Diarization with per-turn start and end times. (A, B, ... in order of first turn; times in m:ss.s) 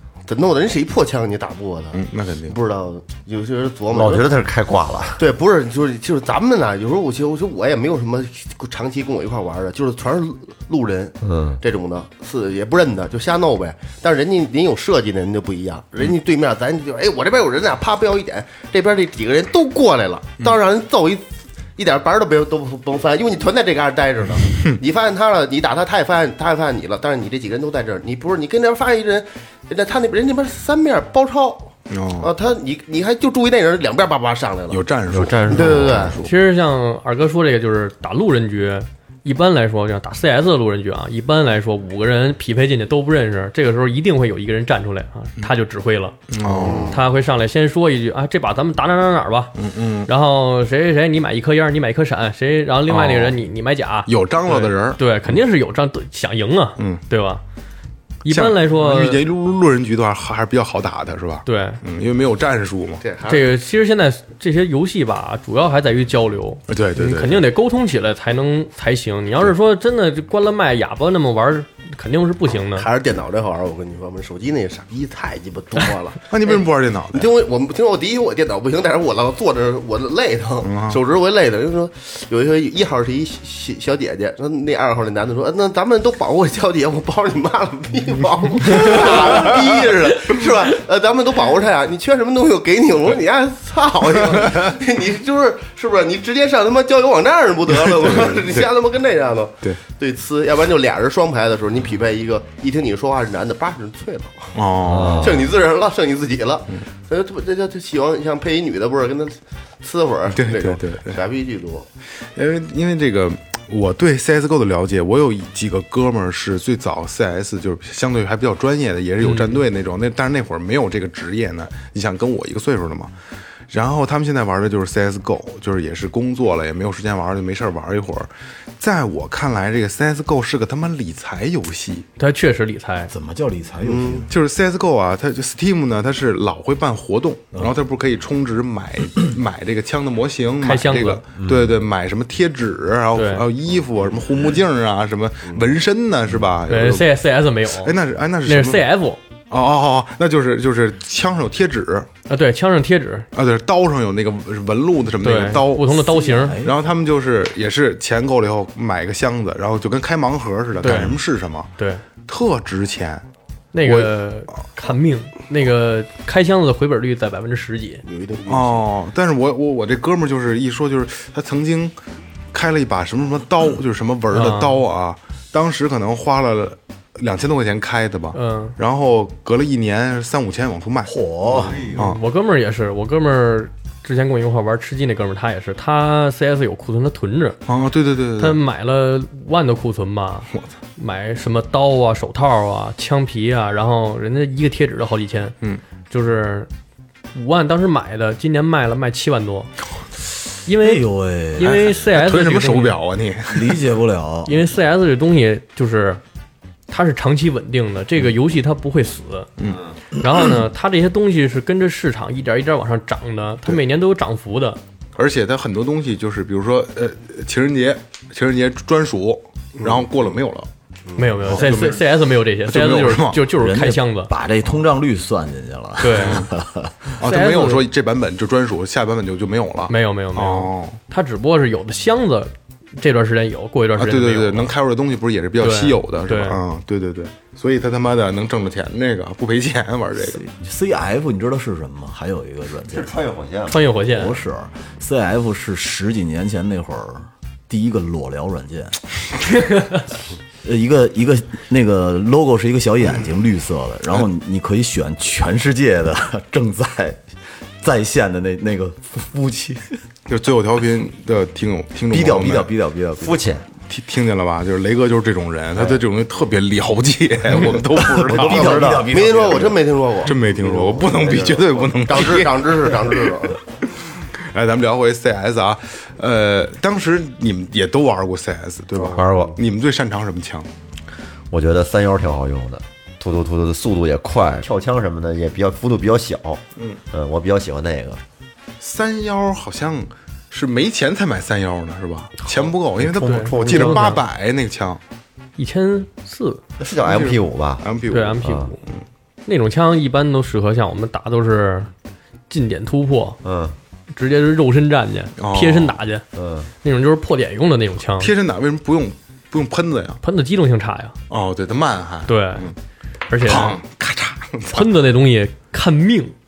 0:00.3-0:04.3 A
0:01.9-0:02.6 B
0:03.9-0:05.2 C
0:05.2-0:34.8 A
0:11.2-0:11.6 C
0:31.9-0:32.3 B
0:34.7-0:36.3 B
0:35.1-0:36.2 C
0:35.4-0:36.2 A
0:36.2-0:57.4 D
0:46.3-0:47.0 B
0:46.5-0:47.0 A
0:49.6-0:50.1 B
0:52.9-0:53.4 B
0:54.1-0:55.0 B
0:56.8-0:57.0 B
0:58.2-0:59.2 D
0:58.3-1:03.0 B
1:01.5-1:01.8 D
1:03.0-1:03.5 A
1:03.3-1:12.9 D
1:06.7-1:07.5 B
1:12.7-1:51.9 A
1:16.3-1:17.3 B
1:20.6-1:21.0 B
1:28.7-1:29.4 B
1:37.7-1:38.7 B
1:44.6-1:45.4 B
1:44.8-1:45.5 C
1:50.3-1:51.2 B
1:52.4-2:03.1 B
1:59.2-1:59.6 D
2:03.7-2:12.1 B
2:12.2-2:13.1 D
2:13.1-2:14.3 E
2:13.8-2:14.2 A
2:14.3-2:27.1 B
2:20.6-2:21.2 D
2:23.2-2:23.5 D
2:26.7-2:27.9 D
2:27.7-2:28.8 B
2:28.4-2:29.2 D
2:29.5-2:32.1 B
2:32.3-2:33.3 D
2:33.3-2:41.7 B
2:35.2-2:36.6 D
2:36.2-2:36.8 E
2:40.8-2:41.2 D
2:41.8-2:42.0 D
2:42.3-2:43.3 B
2:43.7-2:48.0 D
2:43.8-2:44.1 B
2:48.0-2:48.9 A
2:48.5-2:51.9 B
2:52.5-3:01.2 B
2:54.3-2:54.8 D
2:58.3-2:58.8 D
3:01.1-3:01.9 E
3:01.5-3:02.0 C
3:01.8-3:02.2 B
3:02.0-3:07.6 D
3:07.7-3:08.6 B
3:08.4-3:15.6 D
3:16.1-3:16.7 D
3:17.3-3:19.7 D
3:20.7-3:21.0 D
3:20.8-3:21.9 E
3:21.6-3:23.0 D
3:21.6-3:23.8 B
3:23.5-3:24.6 E
3:24.5-3:26.2 D
3:26.9-3:29.5 D
3:29.6-3:29.8 B
3:30.2-3:34.8 D
3:35.2-3:40.7 B
3:39.8-3:40.1 A
3:41.2-3:44.3 D
3:41.5-3:42.0 B
3:42.6-3:43.4 B
3:43.6-3:47.0 E
3:46.0-3:46.5 D
3:46.2-3:46.5 B
3:47.2-3:51.0 B
3:47.2-3:47.8 D
3:49.9-3:54.7 D
3:54.0-4:00.4 B
3:55.6-3:56.6 D
4:00.2-4:03.2 E
4:02.9-4:03.8 C
4:03.7-4:04.4 D
4:04.1-4:09.0 E
4:09.6-4:10.0 D
4:10.6-4:17.2 E
4:17.8-4:20.0 E
4:20.3-4:22.7 B
4:22.1-4:23.4 E
4:23.2-4:23.7 C
4:23.9-4:28.9 B
4:27.5-4:29.8 E
4:28.4-4:33.6 A
4:28.4-4:29.1 C
4:30.2-4:33.2 B
4:31.1-4:32.0 C
4:33.9-4:40.7 B
4:39.0-4:39.5 A
4:39.1-4:39.6 C
4:41.5-4:48.2 C
4:48.8-4:55.0 B
4:52.5-4:54.1 C
4:53.2-4:54.2 D
4:55.6-4:56.6 D
4:56.8-4:57.9 C
4:57.0-4:59.0 B
4:58.1-4:58.8 D
4:58.4-4:58.7 C
4:59.5-5:01.9 D
5:02.5-5:03.4 D
5:03.4-5:03.8 C
5:04.1-5:06.2 D
5:05.4-5:06.0 B
5:06.3-5:06.7 C
5:06.8-5:08.3 D
5:08.2-5:10.2 B
5:10.2-5:11.2 D
5:11.3-5:12.8 B
5:12.3-5:12.7 D
5:13.3-5:13.8 D
5:13.4-5:14.9 B
5:14.7-5:16.4 D